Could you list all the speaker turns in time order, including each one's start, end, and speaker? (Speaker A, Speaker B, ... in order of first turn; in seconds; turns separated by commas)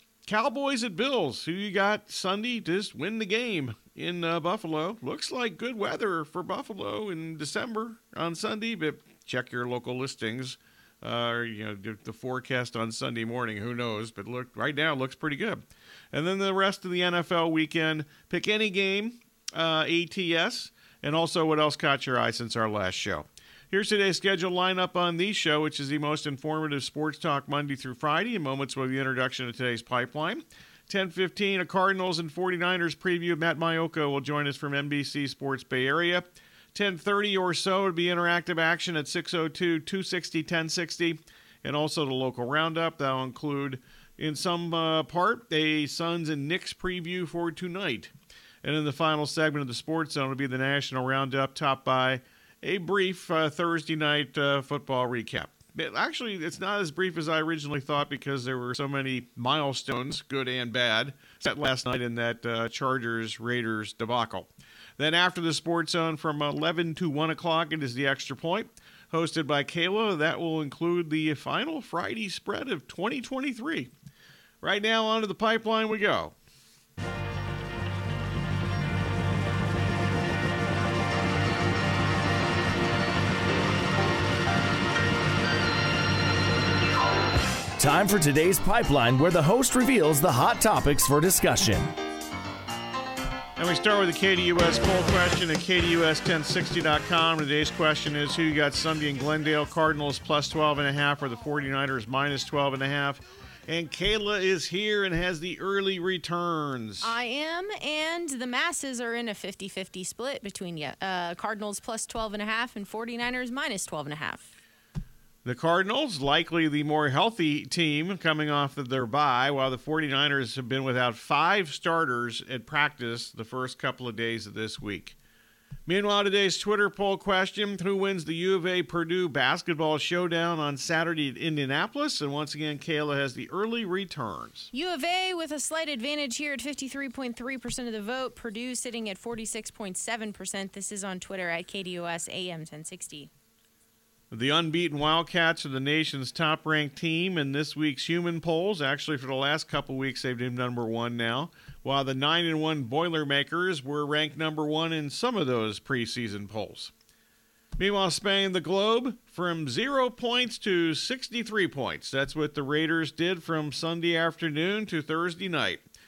Speaker A: 0.3-48.1, Speaker A: 48.6-73.9, Speaker A: 74.6-76.3, Speaker B: 87.8-91.9, Speaker A: 93.6-107.1, Speaker C: 107.0-114.5, Speaker A: 115.5-125.2, Speaker A: 125.9-134.7, Speaker C: 134.7-143.3, Speaker A: 144.3-156.9, Speaker A: 157.8-165.8